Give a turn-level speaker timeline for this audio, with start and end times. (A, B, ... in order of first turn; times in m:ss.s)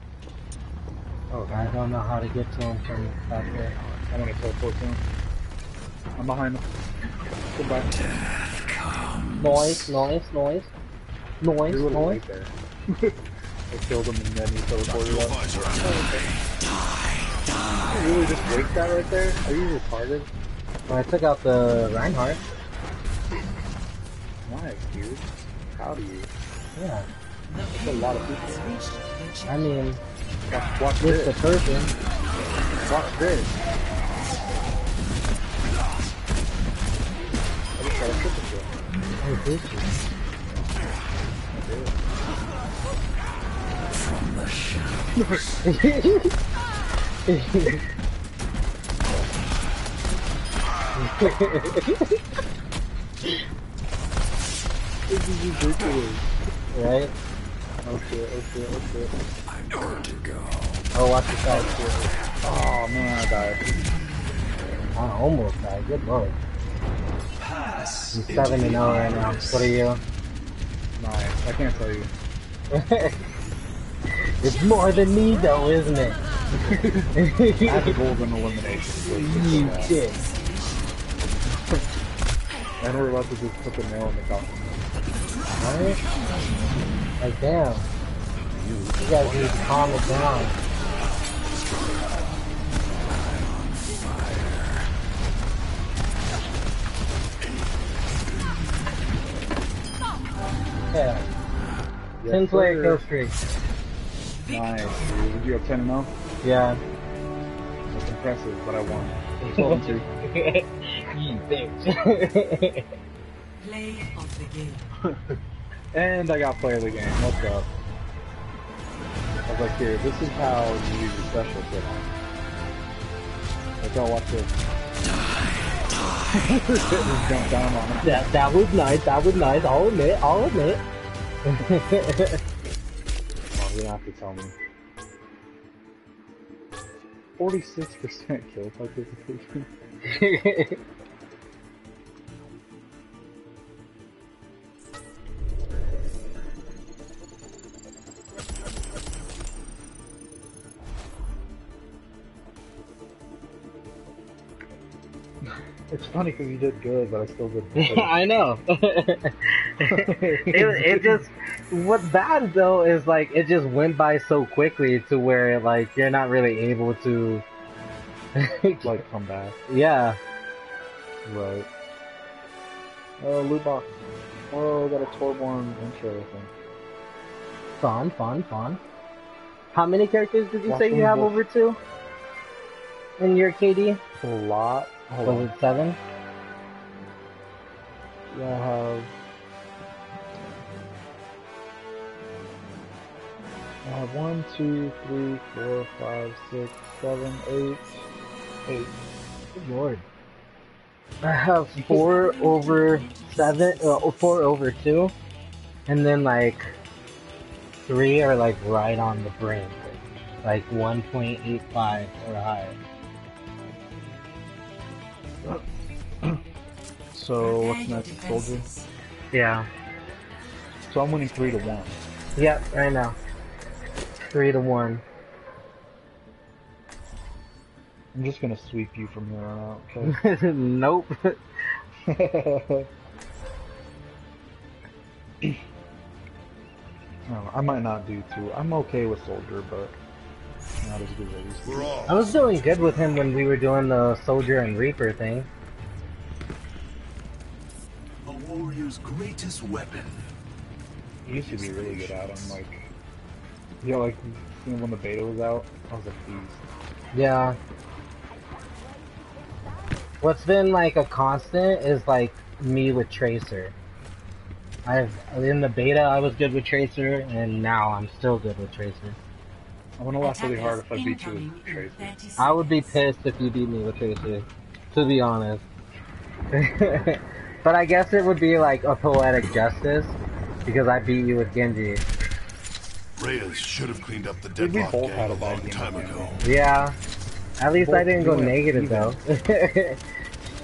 0:01.3-0:01.8 A
0:01.5-0:03.7 B
0:04.1-0:05.0 A
0:06.2-0:06.6 A
0:07.5-0:07.9 A
0:08.0-0:10.0 C
0:09.4-0:10.7 B
0:11.4-0:12.2 B
0:11.6-0:13.1 A
0:13.7-0:16.3 A
0:14.8-0:18.1 C
0:17.9-0:20.3 A
0:20.9-0:22.4 B
0:24.4-0:26.3 A
0:26.8-0:27.1 B
0:27.5-0:29.9 D
0:27.7-0:28.7 A
0:29.4-0:30.0 B
0:30.4-0:31.4 A
0:31.0-0:31.9 B
0:32.8-0:33.6 A
0:37.8-0:38.7 A
0:39.2-0:39.9 B
0:41.5-0:41.9 A
0:43.8-0:45.8 C
0:45.2-0:45.4 A
0:45.6-0:46.3 B
0:47.2-0:47.8 B
0:50.9-0:52.2 B
0:55.1-0:56.2 A
0:56.7-0:57.1 B
0:57.8-0:59.1 A
0:59.4-1:00.8 C
1:00.9-1:01.8 B
1:01.4-1:03.6 A
1:03.4-1:04.6 D
1:04.9-1:06.4 B
1:07.4-1:09.9 C
1:08.1-1:10.0 B
1:11.0-1:12.1 A
1:12.7-1:13.2 B
1:14.4-1:16.2 B
1:16.6-1:17.1 A
1:17.1-1:18.0 B
1:17.6-1:20.0 A
1:19.1-1:20.2 B
1:19.2-1:20.9 D
1:22.8-1:24.8 A
1:25.5-1:26.0 B
1:27.2-1:27.9 B
1:28.4-1:29.7 C
1:29.0-1:30.5 B
1:33.0-1:34.9 C
1:40.9-1:41.2 B
1:42.2-1:43.0 A
1:42.3-1:43.3 B
1:44.3-1:45.3 D
1:44.5-1:46.1 A
1:46.4-1:46.8 B
1:47.9-1:50.1 A
1:49.4-1:52.9 B
1:53.6-1:54.9 D
1:55.0-1:55.4 A
1:55.9-1:57.7 A
1:59.4-2:02.1 A
2:03.8-2:04.5 A
2:05.0-2:06.5 C
2:06.6-2:07.0 B
2:07.0-2:08.3 A
2:08.0-2:10.8 B
2:11.4-2:12.4 B
2:13.5-2:14.5 A
2:17.4-2:19.7 A
2:20.0-2:20.8 B
2:35.9-2:38.2 A
2:37.8-2:47.4 B
2:39.9-2:41.2 A
2:48.4-2:49.0 B
2:48.8-2:49.6 A
2:49.7-2:50.2 B
2:51.2-2:51.7 A
2:53.2-2:56.5 A
2:57.8-2:58.8 B
2:59.7-3:01.8 B
3:00.6-3:01.4 A
3:03.2-3:04.0 B
3:04.2-3:05.5 A
3:05.2-3:06.0 B
3:08.3-3:09.1 A
3:13.8-3:18.1 A
3:18.6-3:19.0 A
3:19.5-3:20.0 B
3:21.2-3:25.1 B
3:21.8-3:22.0 A
3:21.9-3:24.4 D
3:25.9-3:26.7 B
3:27.8-3:29.8 B
3:30.4-3:32.8 B
3:37.1-3:38.6 A
3:37.4-3:38.9 D
3:39.3-3:39.7 B
3:40.9-3:42.0 A
3:42.4-3:43.2 B
3:44.3-3:45.0 B
3:48.1-3:50.2 A
3:50.0-3:51.8 B
3:52.1-3:52.9 A
3:57.3-3:59.9 A
4:00.8-4:02.0 A
4:01.6-4:02.7 C
4:02.1-4:05.5 B
4:08.2-4:10.2 C
4:11.2-4:12.8 A
4:11.2-4:12.5 C
4:13.8-4:16.6 A
4:17.1-4:17.6 B
4:20.2-4:23.7 B
4:24.8-4:29.2 B
4:30.0-4:32.1 A
4:30.2-4:33.0 D
4:32.4-4:35.6 B
4:36.5-4:40.1 B
4:40.6-4:42.0 B
4:43.2-4:46.4 C
4:44.6-4:46.4 A
4:46.4-4:47.0 B
4:47.6-4:50.0 B
4:47.7-4:49.2 A